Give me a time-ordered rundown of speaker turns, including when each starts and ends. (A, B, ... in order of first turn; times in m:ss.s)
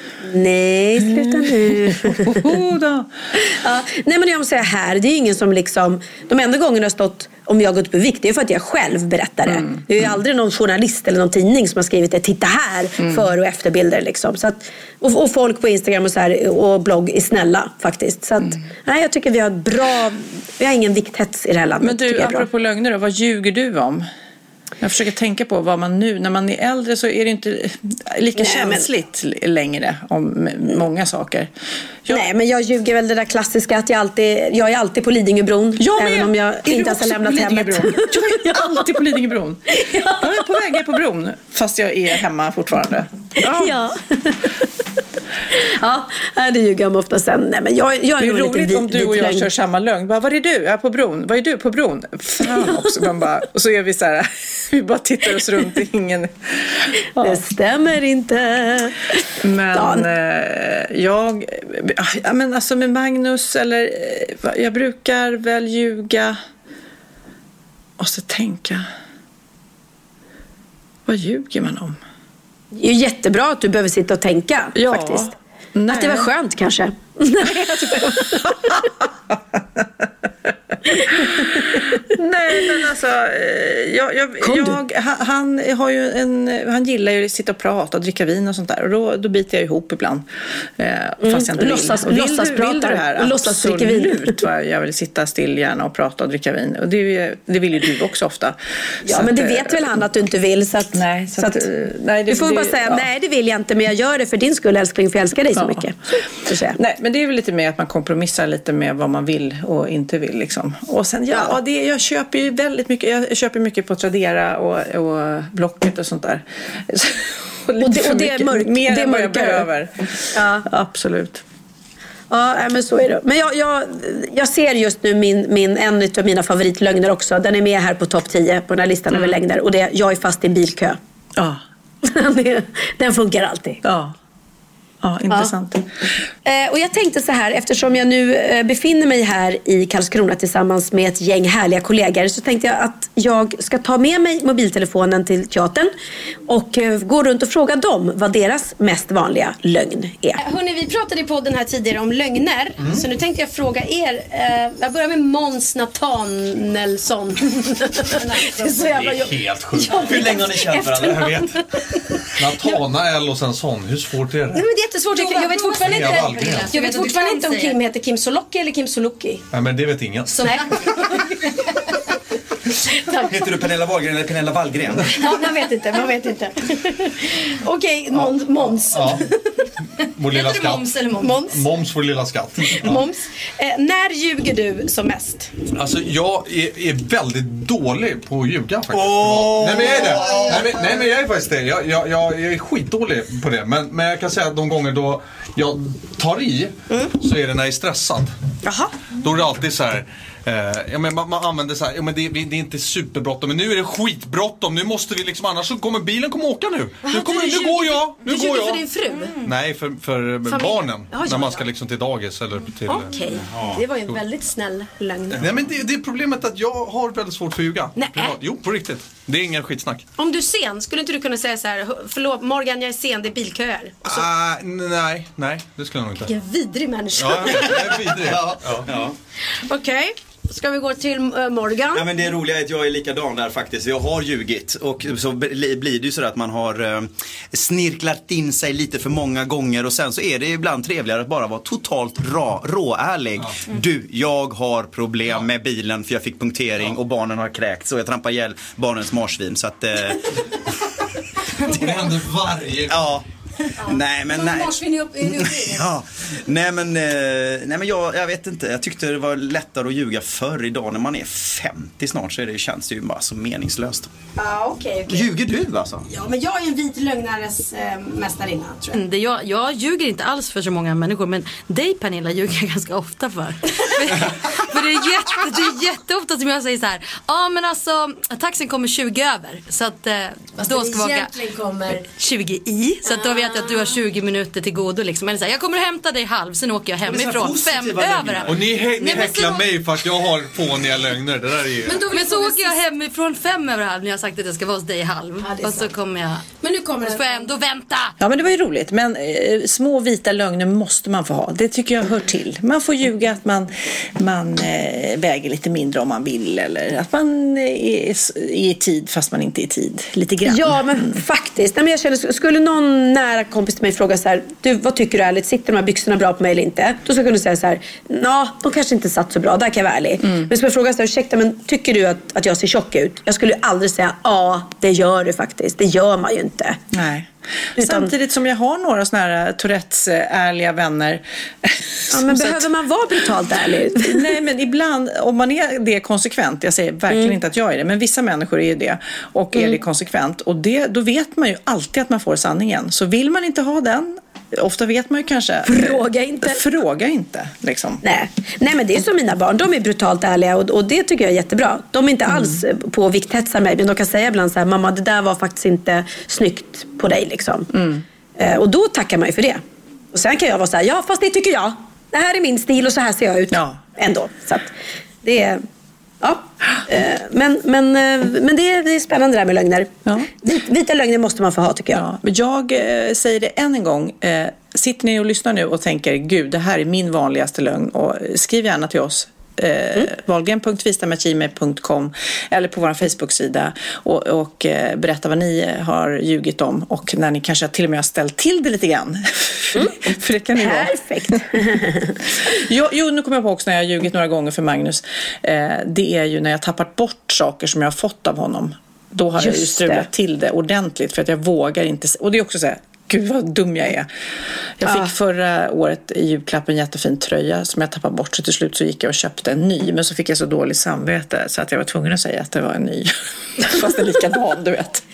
0:00.2-0:02.4 A
0:01.0-0:03.1 B
0:03.4-0:22.5 A
0:09.6-0:10.1 B
0:21.8-0:24.0 B
0:24.8-0:31.5 B
0:28.4-0:28.9 A
0:32.1-0:38.9 A
0:35.8-0:43.8 B
0:39.7-0:40.6 A
0:43.4-0:44.7 A
0:45.5-0:49.5 A
0:48.2-0:57.4 B
0:52.6-0:52.8 A
0:57.2-1:00.1 A
0:59.4-1:06.4 B
1:08.0-1:08.8 B
1:11.1-1:12.0 B
1:12.7-1:15.3 A
1:14.8-1:16.3 B
1:15.9-1:18.8 A
1:17.5-1:30.3 B
1:20.9-1:21.8 A
1:24.4-1:24.8 A
1:30.8-1:40.0 B
1:31.2-1:34.4 A
1:39.0-1:41.6 A
1:40.9-1:43.0 B
1:42.3-1:46.8 A
1:45.6-1:45.9 B
1:46.7-2:01.4 B
1:57.8-1:59.7 A
2:00.3-2:00.7 A
2:02.3-2:11.0 A
2:09.1-2:09.4 B
2:11.4-2:11.6 B
2:12.0-2:13.8 A
2:13.8-2:14.1 B
2:15.0-2:15.9 B
2:16.4-2:25.9 A
2:26.5-2:30.4 A
2:30.4-2:42.0 C
2:38.8-2:41.2 D
2:39.7-2:41.5 E
2:42.4-2:44.7 E
2:42.5-2:42.8 C
2:44.5-2:49.4 C
2:45.1-2:47.8 F
2:45.7-2:46.7 E
2:49.5-2:50.9 E
2:50.3-2:51.8 C
2:52.9-2:53.6 C
2:53.2-2:55.1 D
2:55.2-2:59.5 C
2:58.9-2:59.2 E
3:00.2-3:03.1 E
3:00.3-3:01.4 F
3:01.1-3:01.6 C
3:02.7-3:05.5 C
3:05.7-3:18.4 E
3:08.9-3:10.9 D
3:18.6-3:18.9 C
3:19.2-3:28.8 E
3:27.0-3:29.5 C
3:29.4-3:33.4 E
3:30.4-3:31.7 C
3:32.9-3:35.6 C
3:35.3-3:40.0 E
3:38.0-3:38.4 C
3:40.2-3:44.3 C
3:44.0-3:46.3 E
3:46.3-3:47.8 C
3:47.2-3:49.1 E
3:47.5-3:49.0 D
3:49.6-3:52.1 C
3:51.9-4:10.2 D
4:11.6-4:13.1 E
4:11.7-4:12.0 D
4:12.8-4:13.2 D
4:13.8-4:15.9 C
4:13.8-4:24.1 D
4:24.4-4:25.3 C
4:25.1-4:26.1 D
4:26.1-4:29.0 C
4:28.9-4:41.4 F
4:40.6-4:44.0 C
4:42.1-4:49.4 F
4:47.1-4:48.5 D
4:48.3-4:52.0 E
4:49.0-4:49.6 C
4:51.9-4:52.8 C
4:52.0-4:56.4 F
4:55.4-4:55.9 C
4:56.5-4:57.6 C
4:57.0-4:58.1 F
4:58.2-5:11.2 B
5:10.4-5:26.8 A
5:20.2-5:20.5 B
5:26.9-5:32.7 B
5:27.8-5:28.1 A
5:32.1-5:34.3 A
5:34.0-5:48.0 B
5:45.6-5:46.6 A
5:48.0-5:57.7 A
5:52.3-5:52.6 B
5:57.7-5:58.0 B
5:58.4-6:05.6 A
6:03.5-6:03.8 B
6:06.2-6:12.0 A
6:11.9-6:31.4 B
6:29.8-6:32.2 A
6:32.4-6:44.1 B
6:39.4-6:40.1 A
6:44.8-6:55.0 B
6:44.8-6:45.1 A